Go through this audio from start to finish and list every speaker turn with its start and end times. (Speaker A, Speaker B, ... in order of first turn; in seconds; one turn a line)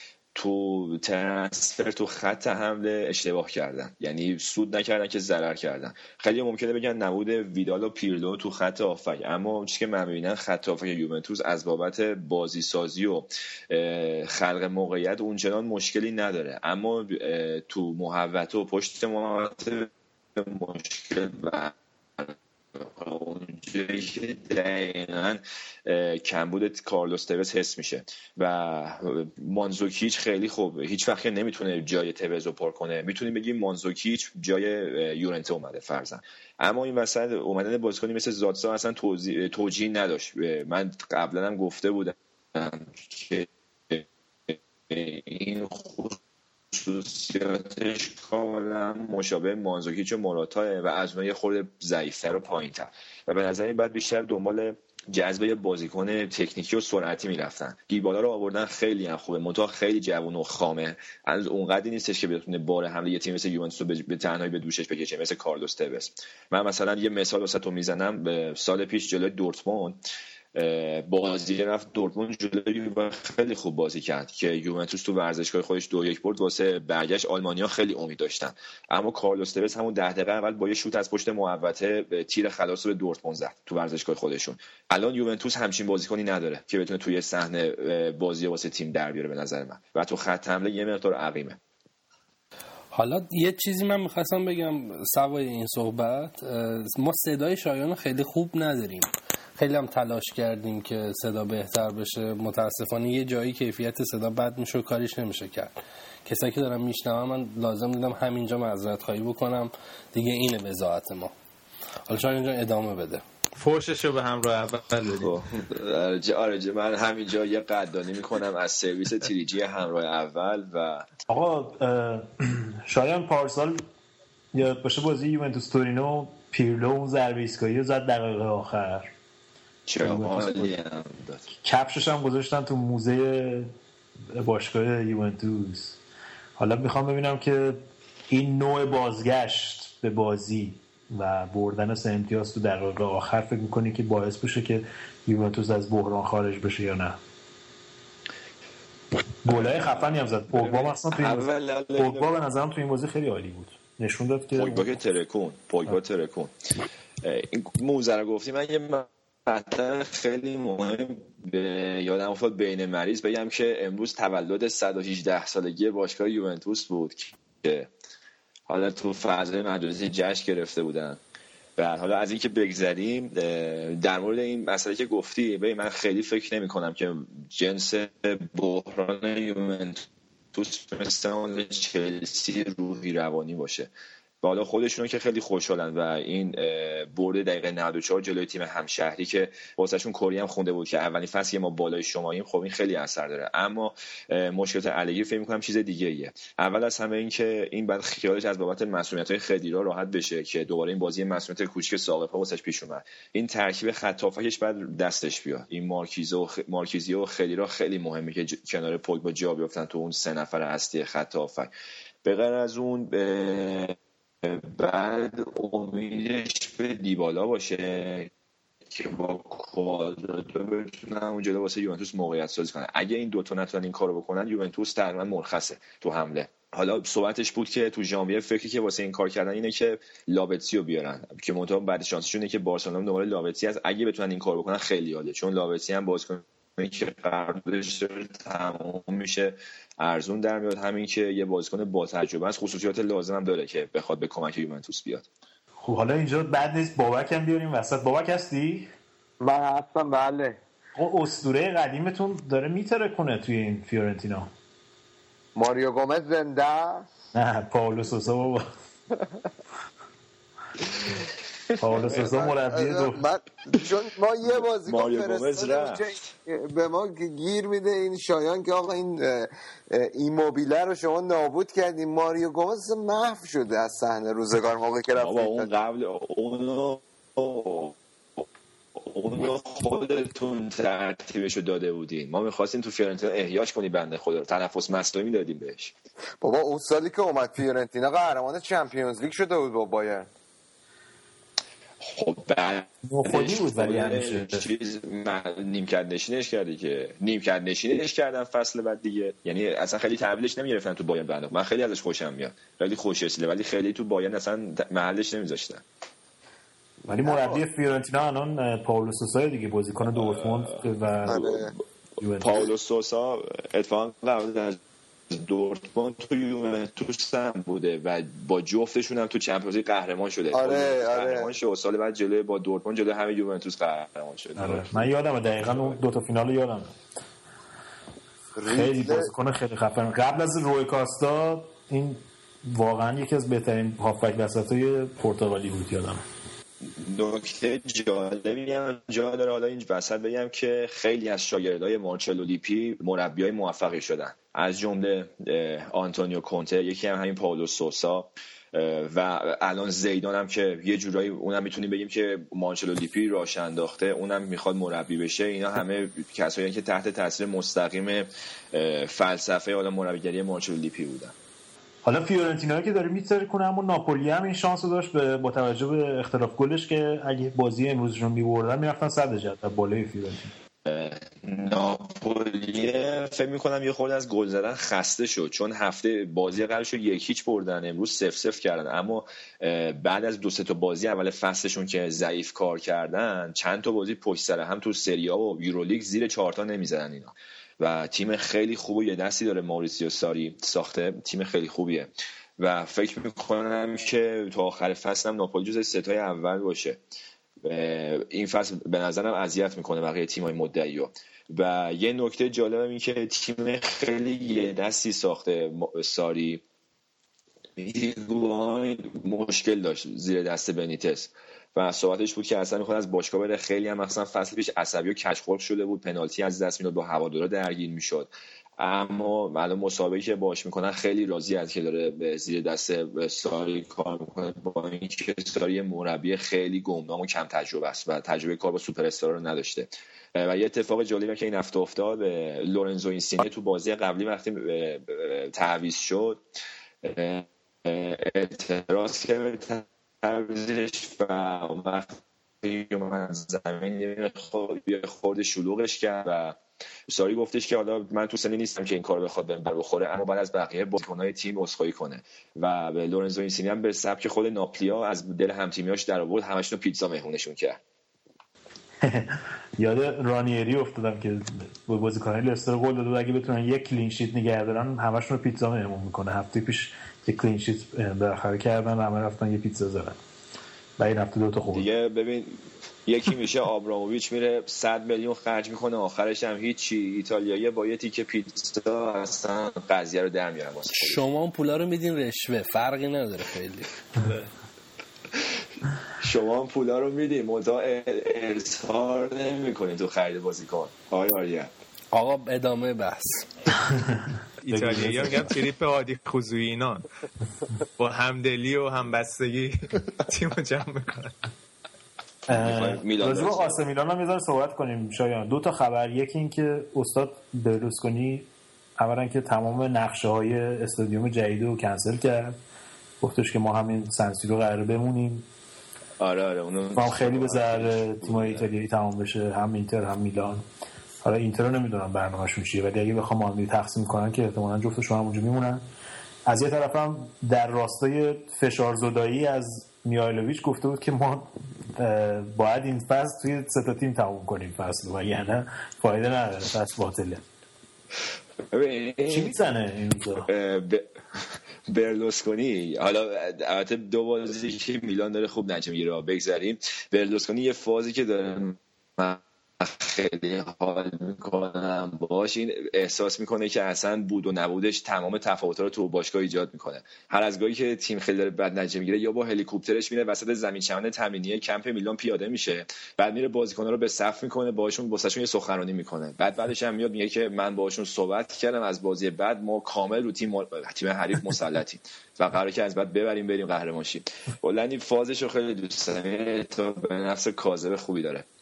Speaker A: 0.3-46.2
Speaker A: 46.7-70.0
Speaker A: 70.5-91.6
Speaker B: 92.9-111.3
Speaker B: 112.1-113.2
Speaker C: 113.6-115.3
Speaker A: 115.2-121.1
Speaker D: 121.3-123.8
Speaker D: 124.5-129.1
Speaker A: 129.9-131.5
Speaker D: 130.0-130.8
Speaker D: 131.6-133.7
Speaker D: 134.3-136.0
Speaker D: 136.6-147.2
Speaker D: 149.4-154.9
Speaker A: 149.5-152.3
Speaker A: 154.6-156.5
Speaker A: 157.2-167.9
Speaker A: 168.7-171.2
Speaker A: 171.8-183.9
Speaker A: 184.4-211.7
Speaker A: 212.2-218.3
Speaker A: 218.9-245.3
Speaker D: 245.8-248.9
Speaker E: 249.4-250.6
Speaker D: 251.0-254.5
Speaker E: 255.6-257.1
Speaker D: 257.3-258.7
Speaker E: 259.1-259.4
Speaker D: 261.8-263.2
Speaker E: 262.0-275.7
Speaker A: 264.4-266.3
Speaker A: 275.2-278.4
Speaker A: 279.0-285.9
Speaker E: 286.4-290.3
Speaker A: 292.0-305.8
Speaker D: 293.1-294.7
Speaker E: 307.0-307.6
Speaker D: 307.1-311.6
Speaker A: 310.1-311.7
Speaker E: 311.3-311.7
Speaker D: 312.2-312.7
Speaker A: 312.4-314.8
Speaker A: 315.3-326.0
Speaker E: 320.5-321.5
Speaker D: 324.6-326.9
Speaker E: 328.6-329.3
Speaker D: 328.6-336.2
Speaker A: 337.0-361.3
Speaker D: 362.0-370.5
Speaker A: 370.9-397.0
Speaker A: 397.6-406.6
Speaker A: 407.8-436.4
Speaker A: 437.0-457.8
Speaker D: 459.0-470.2
Speaker D: 471.0-471.9
Speaker A: 471.7-481.2
Speaker B: 480.9-483.9
Speaker A: 486.2-491.7
Speaker B: 492.1-493.4
Speaker D: 493.9-495.5
Speaker C: 494.6-497.0
Speaker C: 498.0-501.3
Speaker D: 502.5-512.6
Speaker A: 502.5-503.8
Speaker D: 513.2-515.5
Speaker A: 516.2-518.7
Speaker D: 516.9-520.6
Speaker D: 521.2-525.8
Speaker D: 526.5-537.4
Speaker A: 538.7-539.5
Speaker D: 539.3-540.5
Speaker A: 540.5-578.5